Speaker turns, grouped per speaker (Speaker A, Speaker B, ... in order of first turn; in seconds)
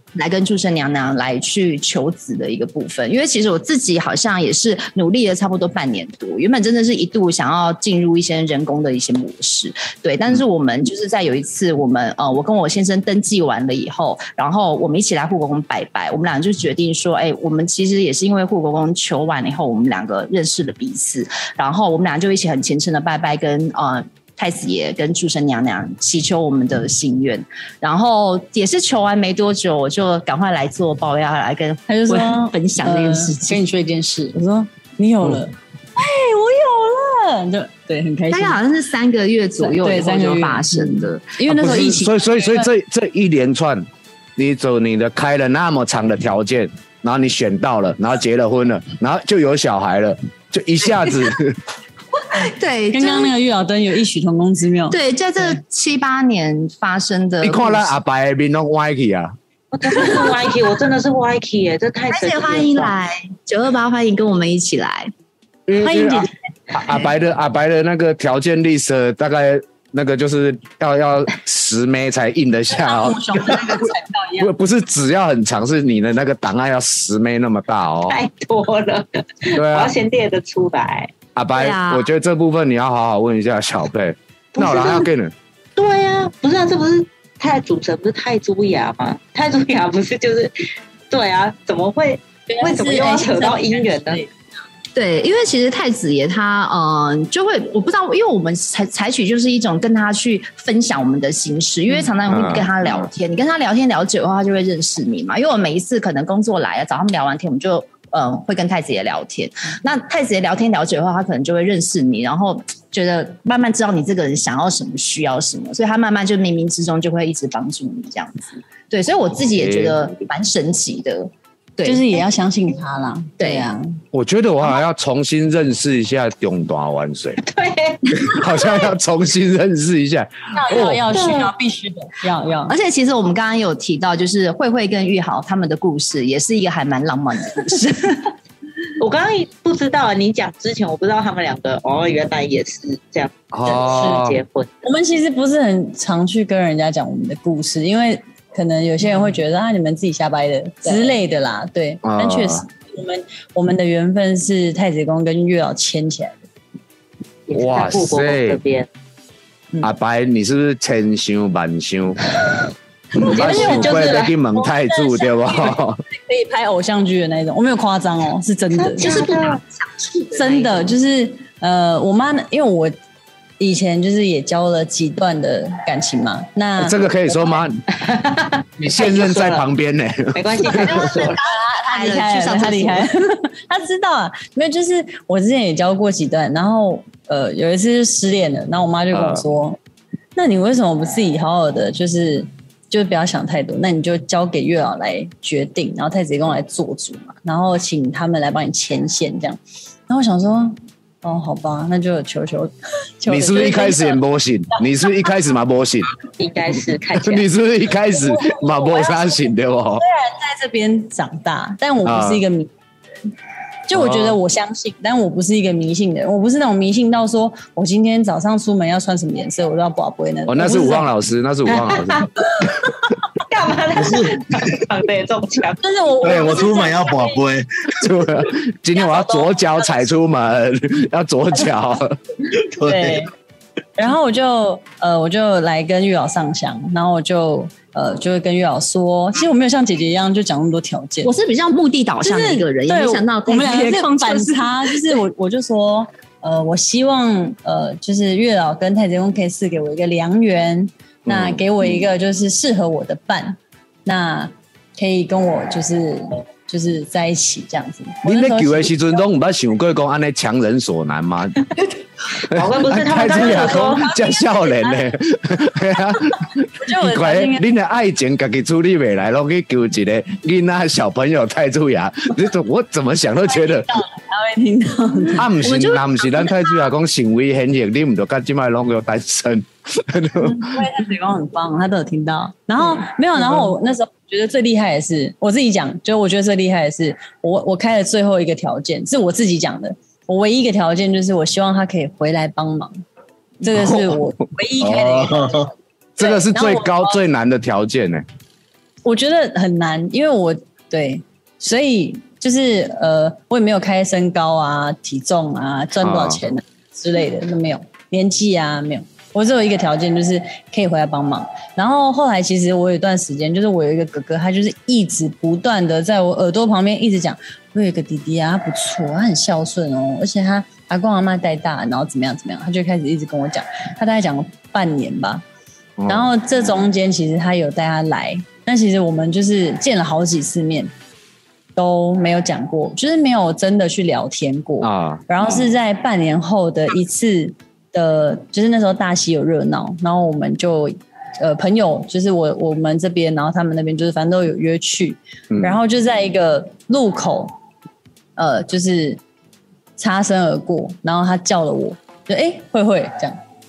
Speaker A: 0.1-33.6, 38.3-41.4, 52.3-53.3, 54.9-58.0, 60.0-60.3, 62.1-65.1, 95.0-122.2, 123.4-123.7, 132.7-138.2, 150.9-151.1, 169.1-170.7, 181.0-183.1, 241.2-245.2
Speaker B: 31.9-38.6, 39.6-42.7, 52.9-55.0, 65.8-66.3, 72.7-74.5, 81.6-82.0, 92.5-94.3, 121.9-123.8, 130.6-132.8, 143.7-144.2, 144.8-156.5, 163.3-169.2, 170.3-172.9, 173.6-177.6, 181.1-189.8, 190.4-204.2, 208.4-209.4, 210.0-212.7, 213.9-221.1, 225.8-227.4, 229.0-229.5, 232.8-233.3, 234.0-241.3, 242.2-259.2, 264.2-265.0, 266.8-267.6, 273.5-276.0, 280.4-293.0, 293.6-297.2, 299.1-325.4, 326.1-330.9, 331.8-347.5, 348.4-349.2, 350.0-353.4
Speaker C: 41.5-51.6, 57.4-59.3, 65.7-73.6, 74.4-78.2, 79.5-80.0, 81.4-85.3, 102.3-103.0, 119.5-120.0, 124.1-127.4, 128.1-131.1, 143.5-144.4, 152.0-152.7, 157.5-158.6, 159.8-162.3, 163.2-166.0, 176.8-177.8, 178.8-181.1, 189.1-189.4, 203.3-206.1, 207.2-210.0, 212.0-212.4, 213.9-214.4, 220.5-222.3, 228.0-232.2, 251.3-251.9, 258.2-261.7, 262.5-273.9, 275.4-280.8, 282.8-283.7, 293.7-294.2, 296.2-298.2, 306.0-306.4, 326.0-326.3, 334.8-335.2, 345.5-345.8
Speaker D: 59.7-62.9, 78.1-81.1, 85.8-90.5, 91.1-94.2, 127.4-128.9, 131.1-131.5, 139.0-144.7, 157.5-158.9, 163.2-164.4, 168.7-169.6, 177.9-179.7, 180.3-181.4, 206.4-207.4, 221.7-222.3, 223.5-225.8, 262.4-264.2
Speaker E: 223.9-224.8, 226.2-228.5, 232.6-233.2, 294.8-295.7